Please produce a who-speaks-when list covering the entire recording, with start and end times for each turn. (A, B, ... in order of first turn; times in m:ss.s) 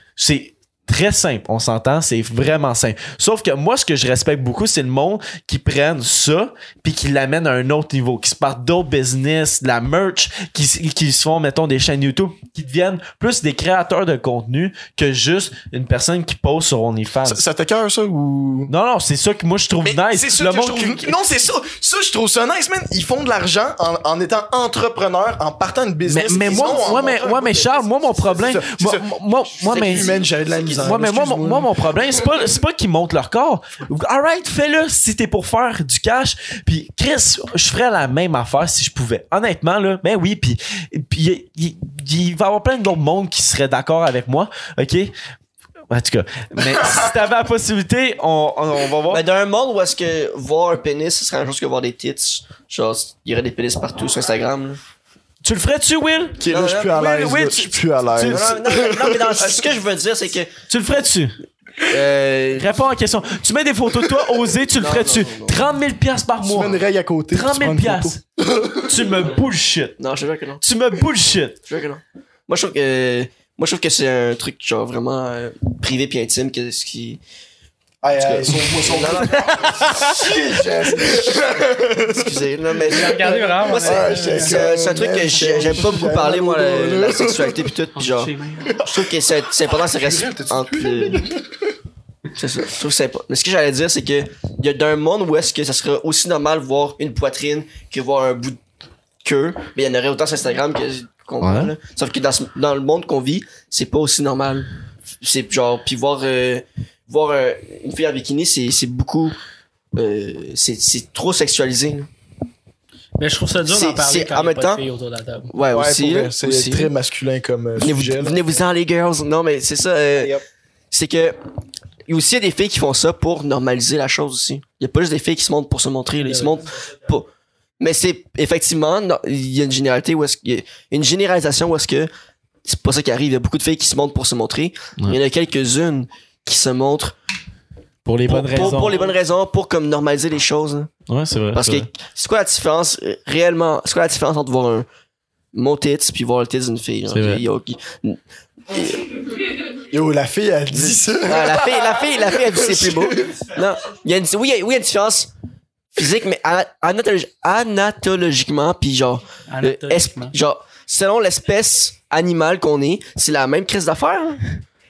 0:00.2-0:17.4 A
0:17.2-0:18.7 B
0:18.7-0:21.1 A
0:19.8-0:32.0 B
0:26.1-0:30.1 A
0:26.4-0:27.0 C
0:29.7-0:30.7 C
0:30.7-0:45.1 A
0:45.9-0:49.2 A
0:49.1-0:54.8 C
0:55.4-0:56.4 A
0:56.4-0:59.7 B
0:56.5-0:57.1 C
0:57.0-0:58.6 A
0:58.3-1:00.5 C
1:00.7-1:01.4 A
1:01.9-1:02.7 C
1:02.5-1:06.8 A
1:04.8-1:05.6 C
1:06.4-1:09.0 B
1:07.3-1:08.2 A
1:08.8-1:10.0 A
1:10.0-1:10.6 C
1:10.6-1:11.6 A
1:11.6-1:17.2 C
1:18.0-1:22.4 B
1:18.1-1:20.1 C
1:22.0-1:31.2 C
1:22.9-1:24.6 D
1:23.1-1:27.7 B
1:25.4-1:25.7 D
1:28.0-1:28.7 D
1:28.6-1:31.5 B
1:32.4-1:38.6 C
1:39.2-1:44.7 C
1:41.4-1:41.7 A
1:45.2-1:49.4 C
1:49.9-1:52.1 C
1:53.2-1:55.5 D
1:53.6-1:54.8 C
1:55.5-1:56.9 C
1:55.7-1:58.4 B
1:57.8-2:00.4 C
2:00.1-2:00.4 B
2:00.9-2:01.4 C
2:02.1-2:07.3 C
2:06.2-2:06.6 D
2:07.8-2:12.1 C
2:12.6-2:17.2 C
2:18.0-2:19.1 A
2:18.3-2:20.9 C
2:21.1-2:21.9 A
2:21.5-2:24.9 C
2:25.5-2:29.3 C
2:27.1-2:27.4 A
2:29.9-2:33.5 B
2:30.7-2:35.3 C
2:35.9-2:44.5 C
2:39.5-2:40.3 D